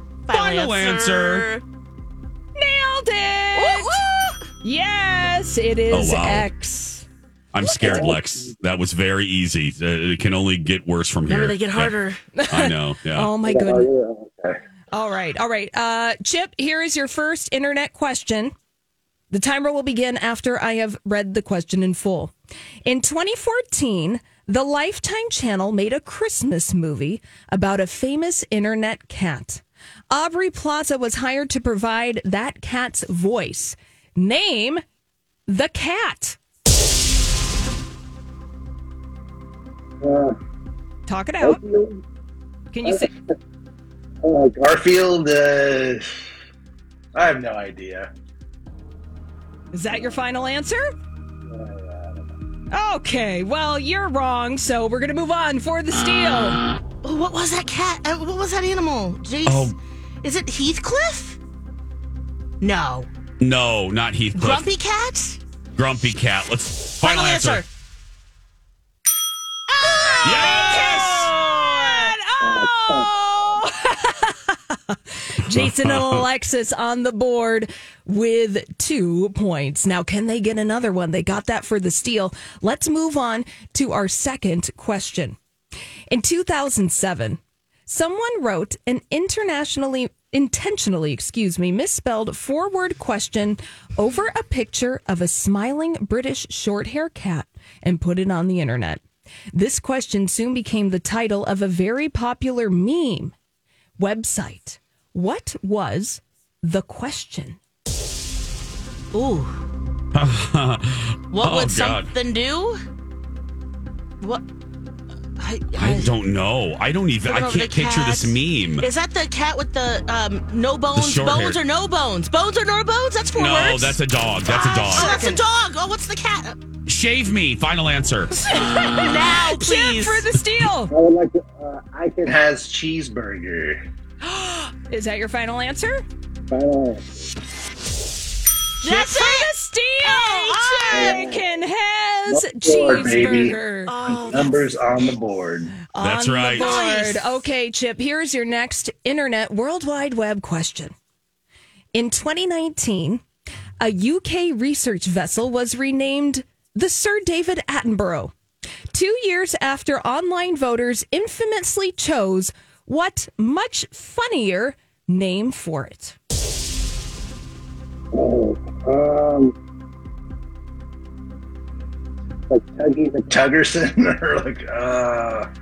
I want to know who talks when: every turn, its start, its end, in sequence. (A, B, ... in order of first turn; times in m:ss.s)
0:00.3-0:01.6 A
0:00.3-0:01.5 B
0:02.6-0:04.0 C
0:03.6-0:04.4 A
0:04.6-0:07.0 C
0:05.9-0:06.5 B
0:07.5-0:11.9 B
0:07.8-0:08.2 D
0:11.3-0:12.2 A
0:12.4-0:13.9 C
0:12.5-0:13.3 B
0:13.4-0:14.6 D
0:14.9-0:18.5 C
0:19.3-0:22.3 C
0:22.8-0:34.8 C
0:35.5-0:36.4 C
0:40.0-0:40.3 D
0:41.1-0:41.6 C
0:41.4-0:42.0 D
0:42.7-0:43.1 C
0:44.2-0:46.1 D
0:47.1-0:48.1 D
0:49.7-0:50.8 C
0:51.5-0:52.2 D
0:52.7-0:56.6 C
0:57.0-1:01.4 A
0:59.4-0:59.7 B
1:02.6-1:03.1 A
1:03.4-1:04.7 B
1:04.3-1:05.4 A
1:05.8-1:07.6 B
1:07.0-1:07.6 A
1:09.7-1:12.1 A
1:10.2-1:11.3 B
1:11.9-1:25.4 C
1:12.4-1:13.1 D
1:15.5-1:16.2 B
1:26.1-1:39.0 C
1:39.5-1:43.3 C
1:44.0-1:47.6 C
1:49.1-1:49.6 A
1:50.1-1:52.1 B
1:51.3-1:52.8 A
1:55.4-1:56.1 A
1:55.7-1:58.9 B
1:57.2-2:06.6 A
2:00.9-2:01.6 B
2:03.3-2:05.1 B
2:05.0-2:05.3 C
2:06.9-2:08.4 B
2:08.5-2:10.9 C
2:08.5-2:10.3 A
2:10.9-2:13.8 D
2:14.3-2:16.0 C
2:16.5-2:17.3 D
2:18.8-2:23.9 C
2:18.8-2:21.3 A
2:20.9-2:21.4 D
2:22.3-2:25.8 D
2:23.9-2:24.7 A
2:25.9-2:30.9 C
2:26.0-2:26.8 B
2:26.6-2:27.4 A
2:31.9-2:33.2 C
2:33.8-2:38.3 C
2:38.9-2:46.2 C
2:48.1-2:49.5 D
2:52.5-2:55.5 D